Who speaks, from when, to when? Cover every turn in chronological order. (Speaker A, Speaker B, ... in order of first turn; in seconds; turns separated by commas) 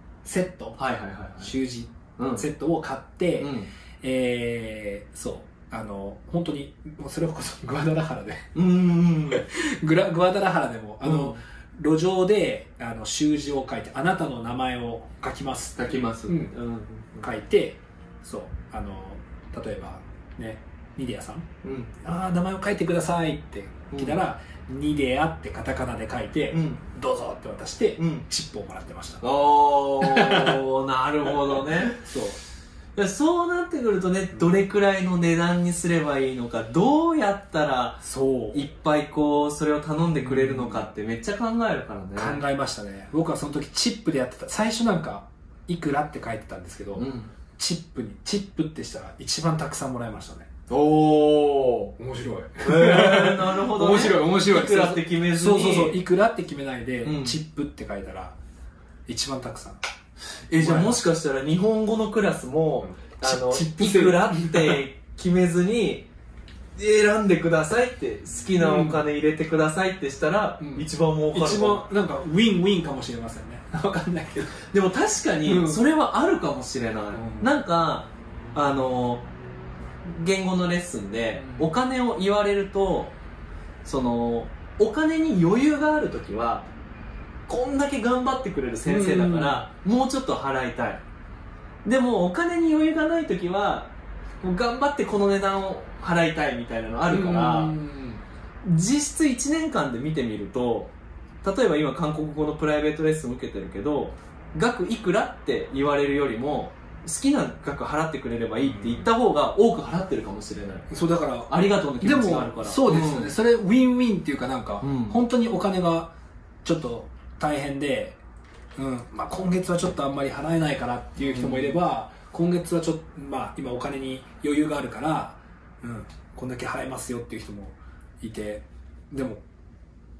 Speaker A: 0.2-0.9, Speaker B: 0.8-1.5, Speaker A: 1.4-8.5, Speaker B: 2.2-2.5, Speaker B: 3.4-3.7, Speaker B: 8.5-9.4, Speaker A: 9.3-16.5, Speaker B: 11.0-11.4, Speaker B: 15.8-17.3, Speaker A: 17.2-21.5, Speaker B: 21.6-21.9, Speaker A: 22.0-29.2, Speaker B: 23.9-24.2, Speaker B: 26.5-26.8, Speaker B: 28.0-28.2, Speaker B: 29.2-31.9, Speaker A: 30.0-30.6, Speaker A: 31.3-32.4, Speaker B: 33.0-42.4, Speaker A: 38.0-38.6, Speaker A: 40.2-40.9, Speaker A: 42.1-50.5, Speaker B: 46.9-47.3, Speaker B: 50.7-51.9, Speaker A: 52.0-58.4, Speaker B: 52.6-56.0, Speaker B: 57.0-57.4, Speaker A: 59.1-59.8, Speaker B: 60.5-66.1, Speaker A: 60.5-61.0, Speaker A: 62.8-64.8, Speaker B: 66.8-71.9, Speaker A: 68.5-69.0, Speaker A: 70.6-74.6, Speaker B: 74.6-79.3, Speaker A: 75.4-75.8, Speaker A: 77.1-77.5, Speaker B: 80.0-83.2, Speaker A: 81.3-81.7, Speaker B: 83.8-86.7, Speaker B: 87.5-91.0, Speaker A: 88.8-89.7, Speaker B: 91.8-97.7, Speaker A: 97.1-98.2, Speaker B: 98.6-113.3, Speaker A: 108.6-109.1, Speaker A: 110.9-116.1, Speaker B: 114.8-115.2, Speaker A: 116.6-118.2, Speaker A: 118.8-129.4, Speaker B: 121.2-121.8